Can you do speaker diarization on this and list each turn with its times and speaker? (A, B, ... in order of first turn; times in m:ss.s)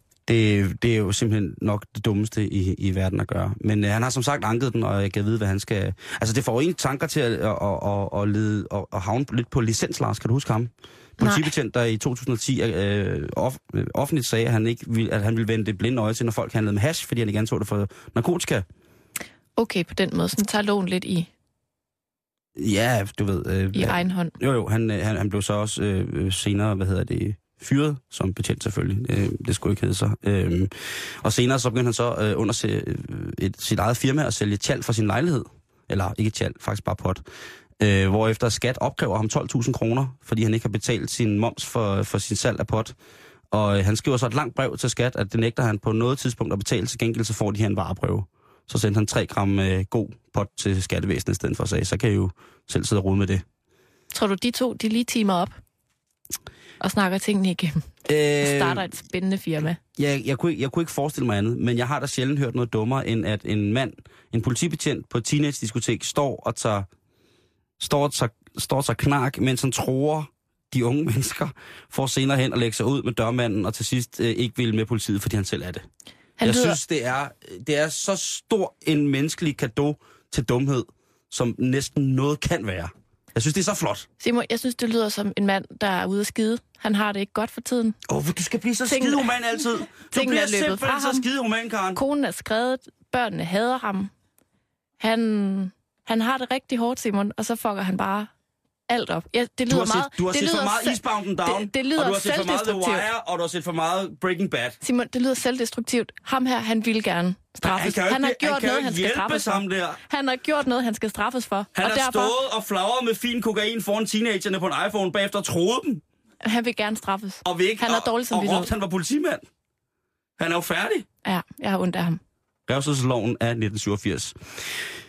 0:00.2-0:18.6 A
0:11.2-0:11.5 B
0:19.6-0:21.3 B
0:22.6-0:37.2 A
0:23.7-0:24.3 B
0:37.8-0:42.9 A
0:43.5-0:53.4 A
0:54.1-0:55.6 B
0:56.8-0:57.8 B
0:58.0-0:58.9 A
0:58.4-0:59.8 B
1:00.0-1:06.9 A
1:07.8-1:15.8 A
1:16.4-1:16.8 B
1:16.4-1:24.1 A
1:24.2-1:28.0 B
1:28.1-1:32.0 A
1:28.8-1:29.3 B
1:29.9-1:31.2 B
1:31.9-1:34.1 B
1:35.0-1:38.3 B
1:38.9-1:43.1 B
1:39.7-1:44.8 A
1:44.8-1:52.3 B
1:47.6-1:50.0 A
1:51.8-1:56.0 A
1:56.4-1:58.7 B
1:57.4-1:59.4 A
2:00.4-2:01.0 A
2:01.2-2:02.2 B
2:02.7-2:04.4 A